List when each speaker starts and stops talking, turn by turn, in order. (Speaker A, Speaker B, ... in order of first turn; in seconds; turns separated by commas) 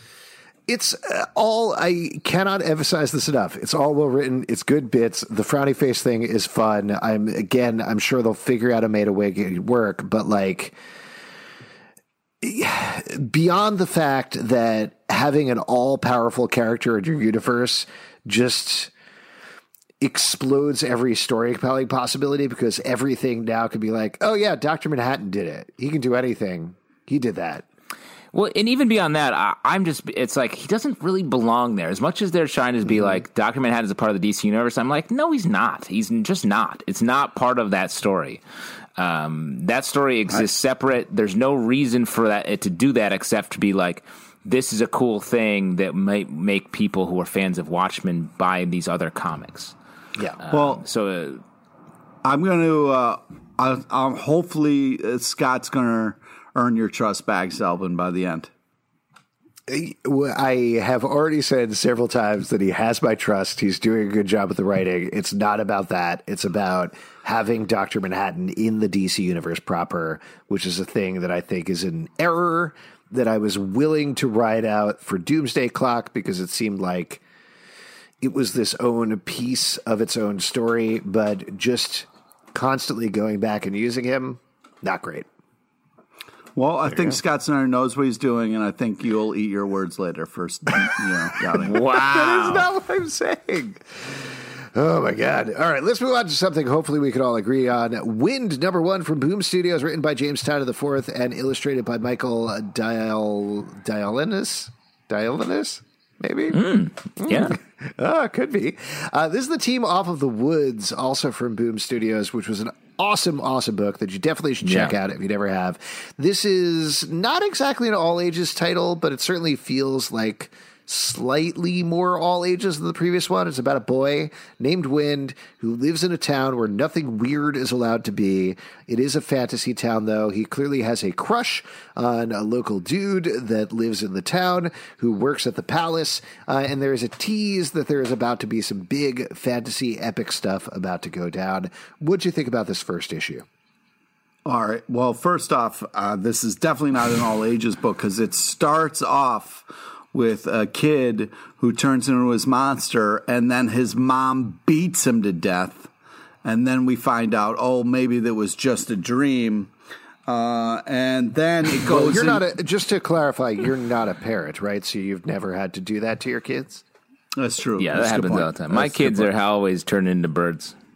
Speaker A: 0.7-10.8, Speaker A: 12.4-18.9, Speaker A: 20.0-27.6, Speaker B: 28.3-38.4, Speaker B: 39.0-49.8, Speaker B: 50.4-51.4, Speaker C: 50.5-50.8, Speaker C: 52.2-58.5, Speaker A: 59.7-77.2, Speaker A: 78.2-85.3, Speaker C: 86.5-91.8, Speaker A: 91.6-106.6, Speaker B: 91.6-92.7, Speaker B: 106.5-107.6, Speaker A: 107.2-143.4, Speaker B: 114.6-114.9, Speaker C: 144.4-155.9, Speaker C: 156.4-159.7, Speaker C: 160.3-162.4, Speaker A: 161.8-166.8, Speaker C: 167.4-169.3, Speaker B: 167.8-170.8